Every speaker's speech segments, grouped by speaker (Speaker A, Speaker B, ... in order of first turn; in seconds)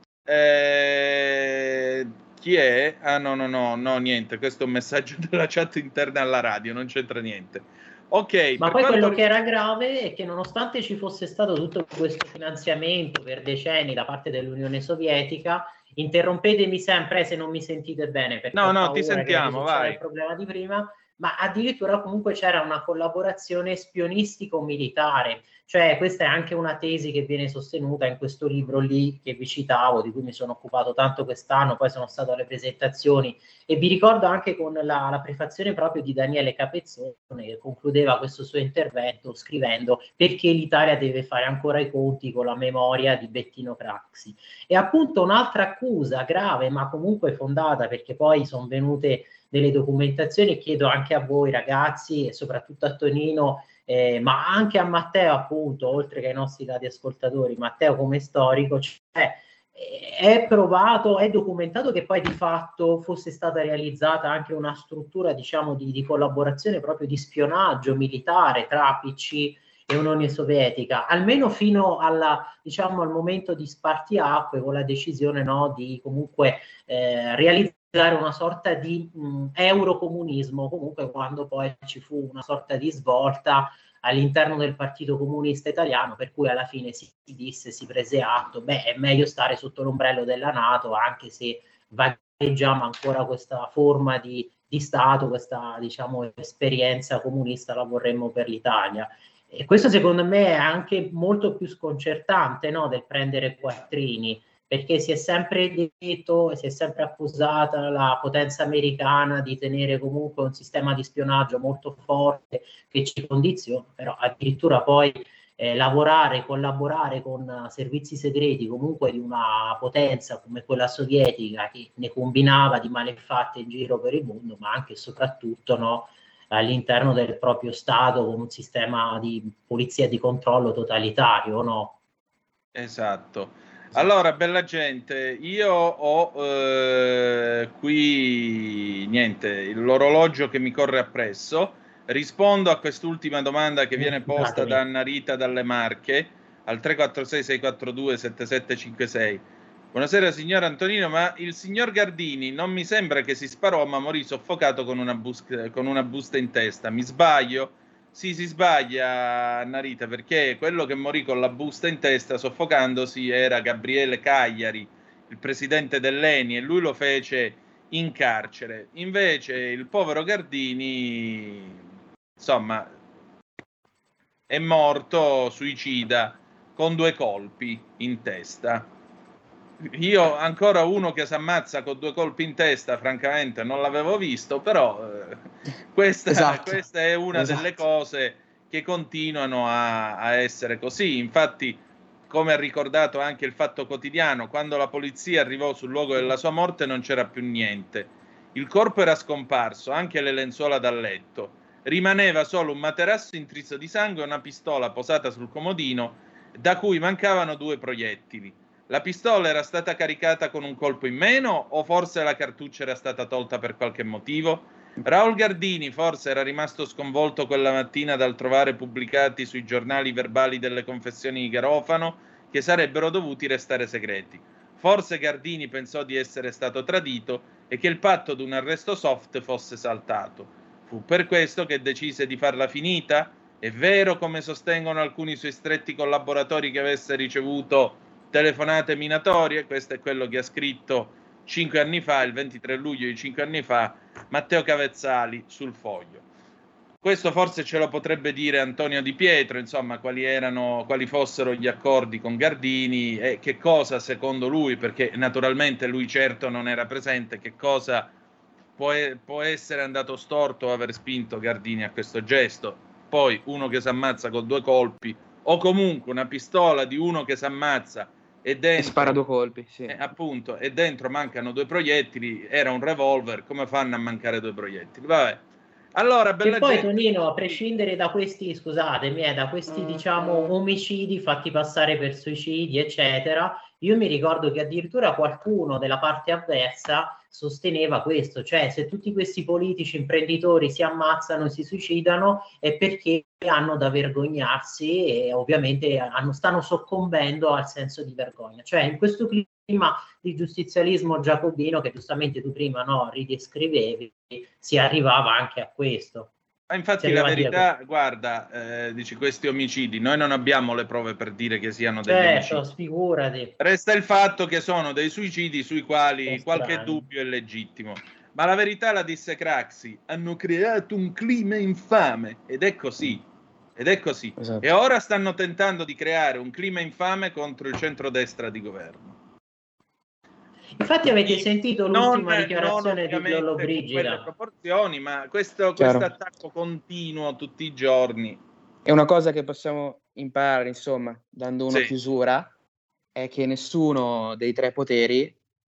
Speaker A: 0.3-9.3, 18.5-20.0, 132.7-171.8, 172.4-172.9, 174.5-178.9, 179.8-185.4, 185.9-246.2, 247.0-258.1, 258.8-269.2, 269.9-275.4, 275.9-277.5, 306.7-312.6, 313.6-323.2, 323.8-329.2, 331.2-338.4
Speaker B: 8.6-132.0, 144.0-144.8, 276.4-306.3, 307.0-307.7, 312.1-313.5, 316.3-317.0, 330.8-334.3
Speaker C: 186.3-186.8, 187.3-187.7, 268.8-270.0, 324.4-324.7, 335.8-336.1, 338.9-342.5, 343.1-345.4